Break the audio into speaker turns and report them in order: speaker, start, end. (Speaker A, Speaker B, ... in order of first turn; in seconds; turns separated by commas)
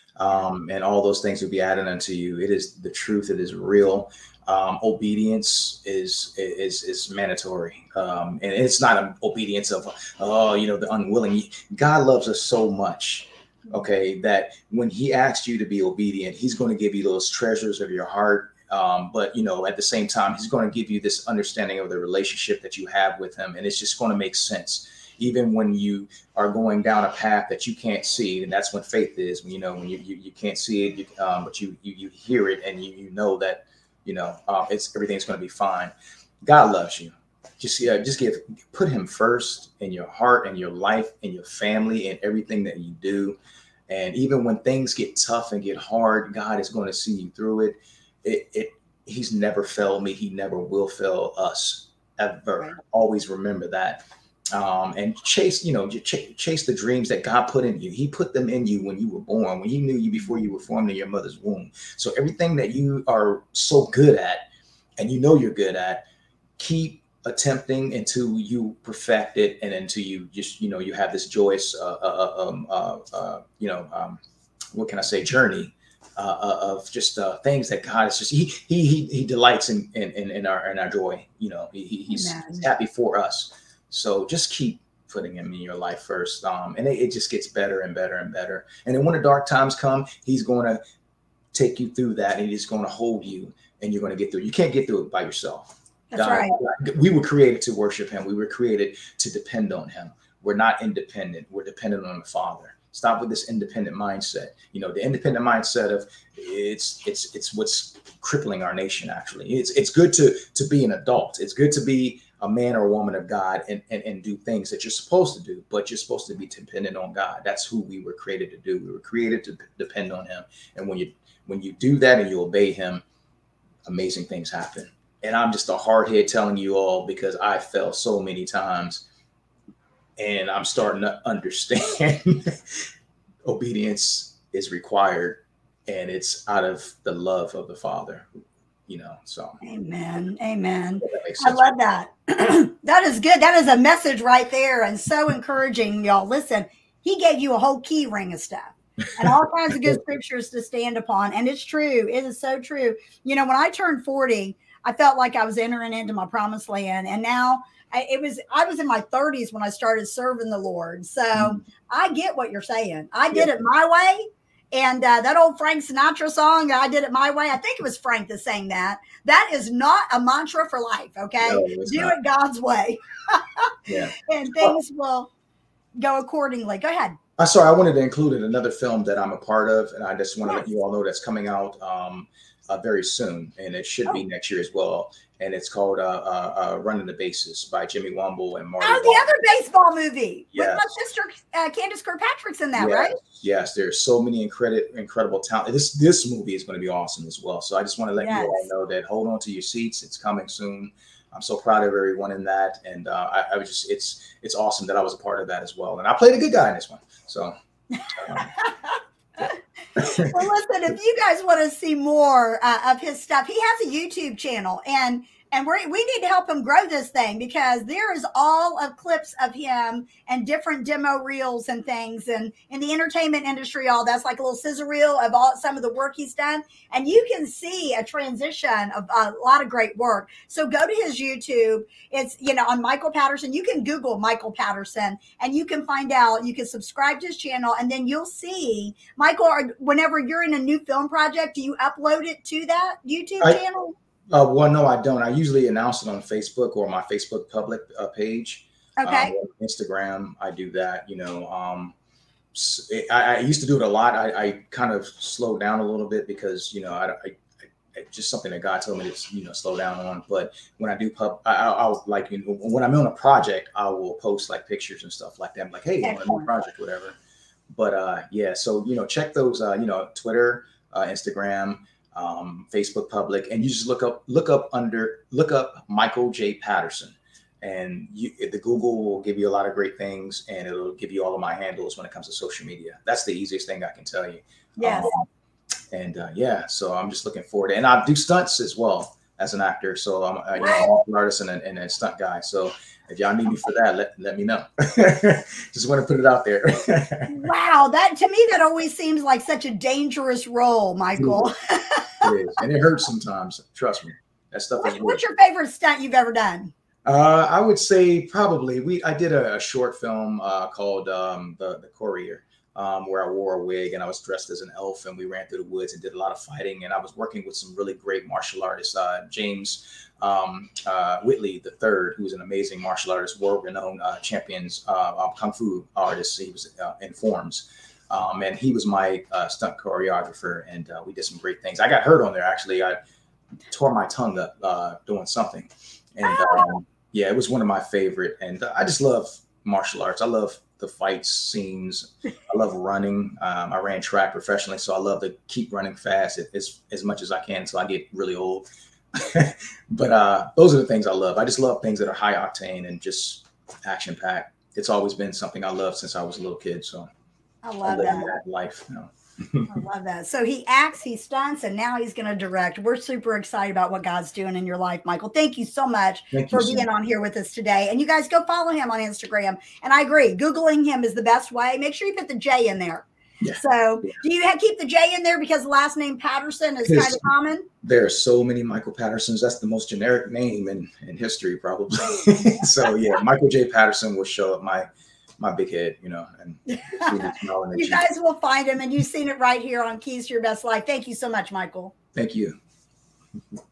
Speaker A: 0.2-64.5, Speaker A: 65.0-66.0, Speaker A: 66.6-74.2, Speaker A: 74.7-90.8, Speaker B: 82.1-82.6, Speaker A: 91.5-123.0, Speaker B: 96.1-96.5, Speaker A: 123.8-129.0, Speaker A: 130.2-132.9, Speaker A: 133.4-138.3, Speaker A: 138.9-139.6, Speaker B: 139.6-175.3, Speaker A: 141.0-141.6, Speaker A: 161.3-161.6, Speaker A: 171.4-172.2, Speaker A: 173.8-174.8, Speaker B: 176.0-177.2, Speaker A: 177.4-189.3, Speaker B: 188.8-193.2, Speaker A: 190.5-190.9, Speaker A: 192.7-207.5, Speaker B: 198.2-198.7, Speaker A: 208.2-208.5, Speaker B: 208.4-243.9, Speaker A: 210.0-210.5, Speaker A: 244.3-251.9, Speaker B: 249.0-249.3, Speaker A: 252.5-257.4, Speaker A: 257.9-267.2, Speaker B: 266.0-266.5, Speaker A: 267.7-285.2, Speaker B: 284.8-285.1, Speaker A: 285.9-297.5, Speaker B: 290.6-290.9, Speaker B: 297.3-302.3, Speaker A: 301.1-301.5, Speaker A: 302.2-305.2, Speaker B: 304.8-306.7, Speaker A: 307.0-333.0, Speaker A: 333.7-357.1, Speaker B: 336.3-336.6, Speaker B: 357.6-358.3, Speaker A: 357.8-359.7, Speaker B: 359.7-377.7, Speaker A: 366.3-366.9, Speaker A: 373.4-374.1, Speaker A: 376.8-377.2, Speaker A: 377.8-384.9, Speaker B: 382.0-382.6, Speaker A: 385.4-388.1, Speaker B: 386.7-391.9, Speaker A: 392.1-392.6